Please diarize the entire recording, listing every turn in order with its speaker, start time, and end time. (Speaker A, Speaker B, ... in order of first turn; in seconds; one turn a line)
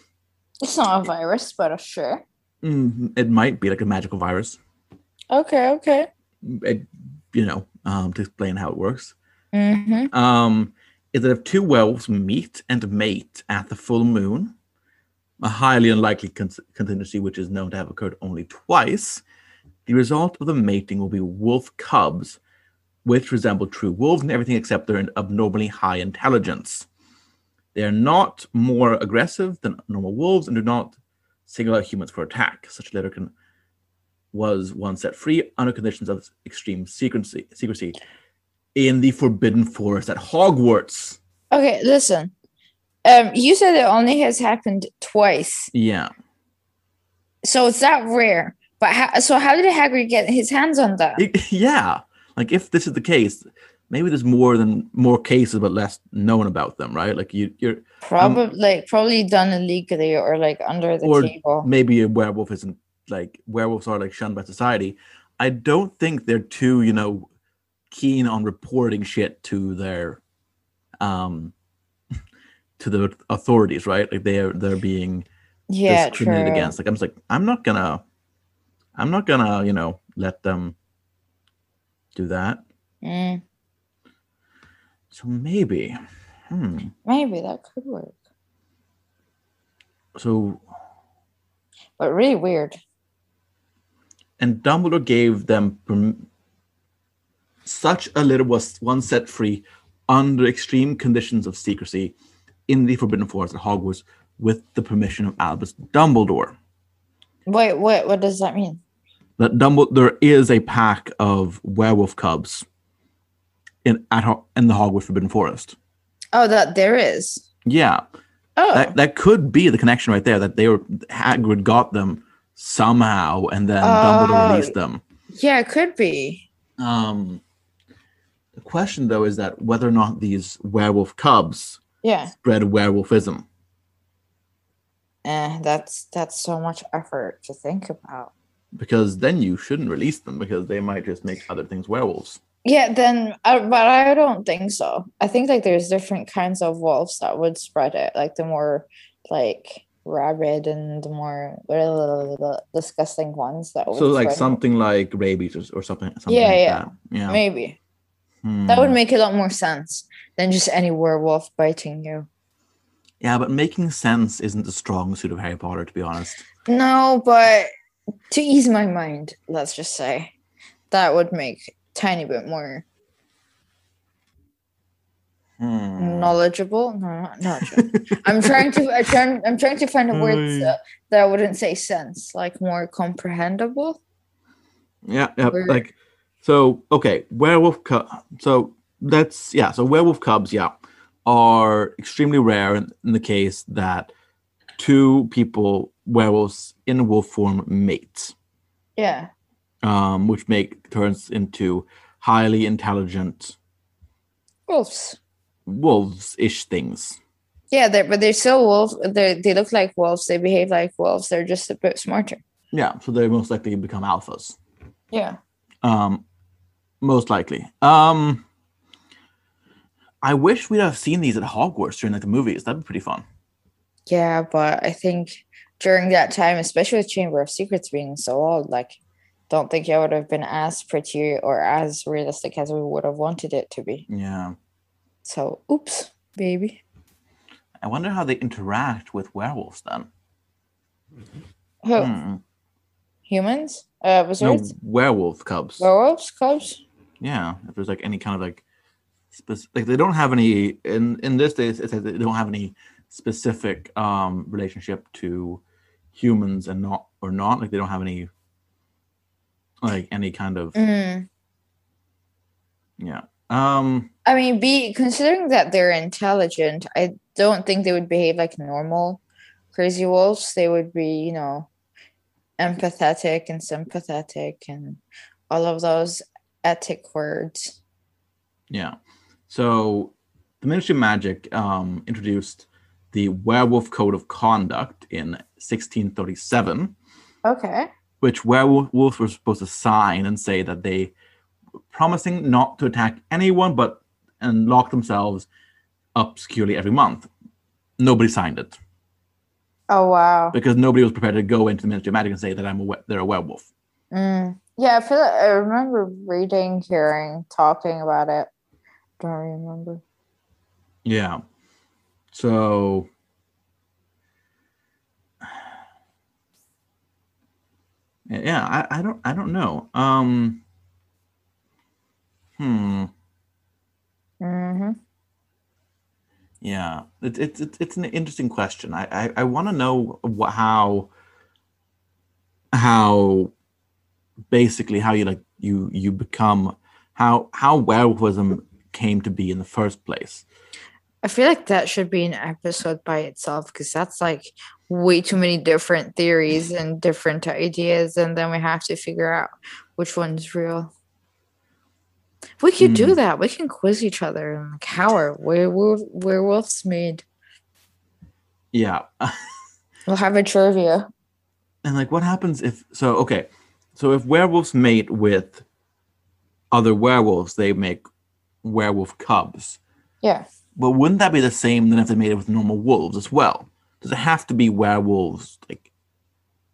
Speaker A: 0.6-2.2
Speaker B: 2.6-4.6
Speaker A: 5.3-6.1
Speaker B: 6.4-9.2
Speaker A: 9.5-10.1
Speaker B: 10.1-14.5
Speaker B: 15.4-19.2
Speaker B: 19.9-22.4
Speaker B: 23.1-26.9
Speaker B: 27.7-30.9
Speaker B: 31.5-33.3
Speaker B: 34.3-38.0
Speaker B: 38.8-41.2
Speaker A: 41.5-42.3
Speaker A: 43.0-45.7
Speaker B: 45.7-46.1
Speaker A: 47.4-51.2
Speaker B: 51.2-58.4
Speaker A: 58.0-61.7
Speaker B: 61.0-67.3
Speaker B: 67.9-70.2
Speaker B: 71.0-71.5
Speaker B: 72.8-75.3
Speaker A: 75.7-76.8
Speaker B: 75.9-78.0
Speaker B: 79.0-80.8
Speaker B: 82.2-82.6
Speaker A: 83.0-83.4
Speaker B: 85.1-86.0
Speaker B: 86.5-86.9
Speaker A: 87.0-88.2
Speaker B: 90.2-90.6
Speaker A: 92.0-92.8
Speaker B: 94.4-96.3
Speaker B: 97.7-102.1
Speaker B: 102.7-106.5
Speaker A: 107.5-108.8
Speaker B: 109.4-112.7
Speaker B: 113.8-115.8
Speaker A: 116.3-117.5
Speaker B: 117.7-118.0
Speaker A: 118.6-118.9
Speaker B: 118.7-125.0
Speaker A: 123.8-124.7
Speaker A: 125.3-126.5
Speaker B: 126.8-127.4
Speaker B: 128.6-131.8
Speaker A: 132.0-132.3
Speaker B: 132.3-133.4
Speaker A: 135.2-138.3
Speaker B: 138.8-142.4
Speaker A: 142.7-154.6
Speaker B: 153.9-157.4
Speaker A: 156.3-157.8
Speaker B: 158.4-159.0
Speaker A: 158.7-162.3
Speaker B: 163.2-166.4
Speaker A: 166.7-167.7
Speaker A: 168.3-170.3
Speaker A: 170.9-172.8
Speaker B: 175.6-176.3
Speaker A: 176.0-184.0
Speaker B: 177.6-178.8
Speaker B: 180.1-180.8
Speaker B: 185.1-194.1
Speaker A: 185.5-185.8
Speaker B: 194.8-198.3
Speaker A: 199.0-199.3
Speaker B: 199.8-203.6
Speaker A: 204.7-205.2
Speaker B: 205.7-207.2
Speaker A: 207.7-212.4
Speaker B: 212.7-214.6
Speaker A: 215.1-215.4
Speaker B: 215.8-216.2
Speaker B: 217.0-218.4
Speaker B: 220.2-223.2
Speaker A: 224.1-229.0
Speaker A: 229.5-234.1
Speaker B: 234.1-234.6
Speaker A: 235.2-236.8
Speaker B: 237.8-240.1
Speaker A: 241.8-242.1
Speaker B: 242.0-242.4
Speaker A: 243.3-244.7
Speaker B: 244.4-245.9
Speaker A: 245.8-246.8
Speaker B: 247.2-248.6
Speaker B: 249.3-255.6
Speaker B: 256.1-258.3
Speaker B: 259.8-260.8
Speaker A: 260.8-261.3
Speaker B: 263.0-264.1
Speaker A: 264.2-269.2
Speaker A: 269.7-271.7
Speaker A: 272.6-275.0
Speaker A: 275.5-277.8
Speaker B: 278.7-279.0
Speaker B: 279.5-286.9
Speaker A: 287.4-287.9
Speaker B: 288.2-291.1
Speaker B: 291.9-295.5
Speaker B: 296.1-297.3
Speaker B: 298.0-298.8
Speaker A: 299.9-300.6
Speaker B: 300.5-303.7
Speaker A: 304.1-308.5
Speaker A: 309.2-310.0
Speaker B: 311.1-311.4
Speaker B: 312.3-313.1
Speaker B: 318.3-320.6
Speaker B: 322.6-323.1
Speaker A: 324.4-325.0
Speaker B: 326.6-331.1
Speaker B: 332.7-333.5
Speaker B: 334.5-340.4
Speaker A: 341.2-350.9
Speaker A: 352.6-357.2
Speaker B: 352.8-353.2
Speaker B: 358.7-359.4
Speaker A: 360.1-361.1
Speaker B: 361.8-365.6
Speaker B: 366.7-368.0
Speaker B: 368.6-369.8
Speaker B: 370.8-375.9